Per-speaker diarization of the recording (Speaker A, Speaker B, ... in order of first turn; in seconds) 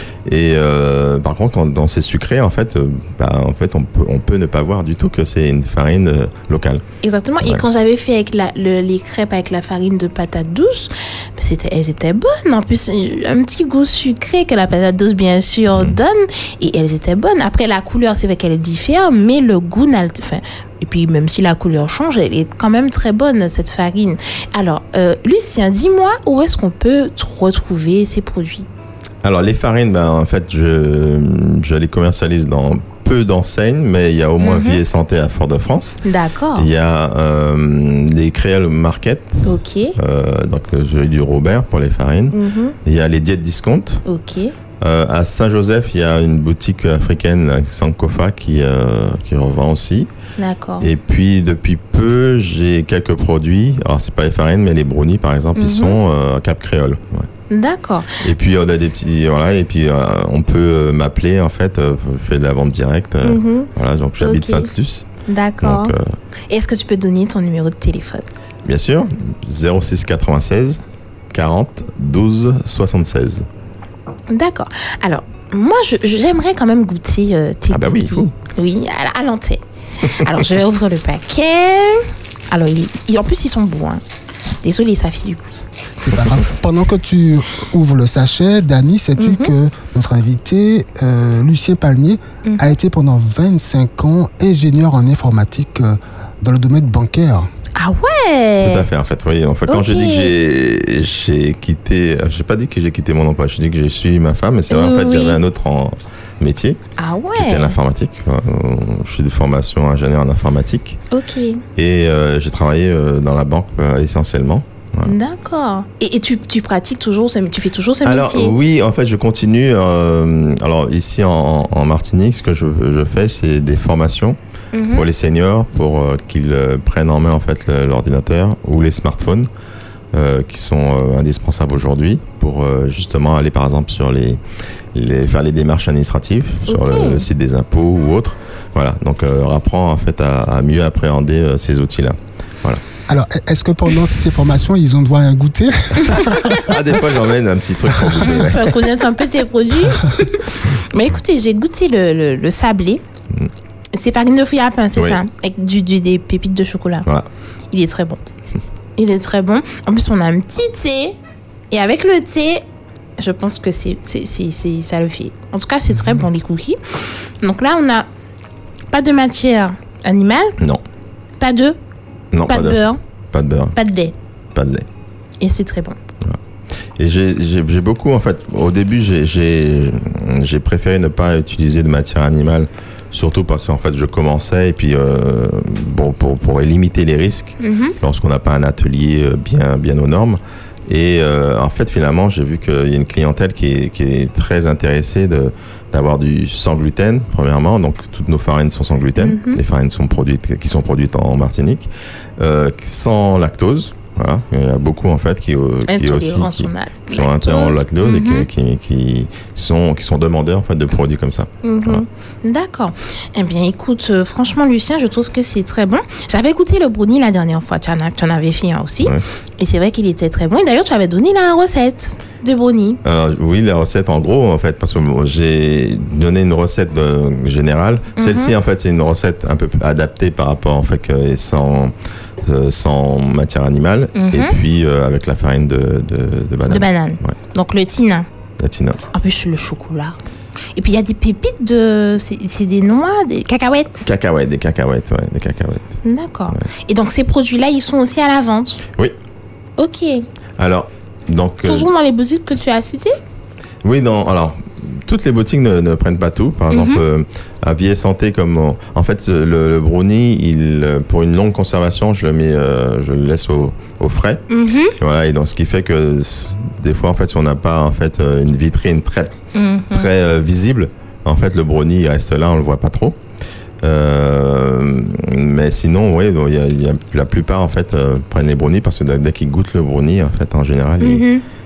Speaker A: 0.2-6.8, 29.2-36.0, 36.5-44.0, 44.8-50.1, 50.8-57.3, 58.2-65.1, 65.6-66.1, 68.7-73.5, 77.7-78.3, 98.6-106.8, 107.4-111.0, 111.8-115.2, 118.0-124.4, 124.9-129.5, 130.1-134.4, 134.9-142.8, 146.1-148.9, 155.0-155.2, 172.3-173.8, 174.5-174.9, 177.0-212.0, 223.0-237.3, 238.6-239.0, 244.0-246.0, 250.6-251.9, 253.8-264.4, 265.0-269.4, 269.9-273.2, 273.8-281.3
Speaker B: 7.0-28.7, 34.4-34.8, 36.0-36.7, 39.4-40.0, 42.3-42.8, 44.0-44.5, 50.4-50.9, 55.6-56.0, 57.5-58.2, 63.2-64.7, 65.3-66.0, 66.5-68.3, 74.3-84.0, 84.6-85.6, 89.2-89.5, 92.5-92.7, 97.8-98.9, 99.7-100.3, 104.7-105.4, 107.0-107.8, 111.1-111.6, 115.0-118.6, 124.7-125.1, 136.7-137.3, 146.2-146.6, 148.2-153.0, 153.9-157.1, 157.7-158.2, 159.0-161.2, 161.7-162.6, 163.2-168.1, 168.9-170.6, 171.4-171.8, 172.5-173.0, 173.8-174.1, 175.4-176.0, 187.6-188.0, 199.2-199.6, 205.9-208.5, 211.6-223.0, 228.2-228.6, 234.2-234.6, 236.7-238.3, 239.1-240.2, 240.8-244.1, 246.0-248.8, 249.8-250.2, 251.7-253.2, 256.7-257.0, 264.5-265.0, 269.5-270.1, 281.0-281.4
Speaker C: 86.0-97.5, 143.1-146.8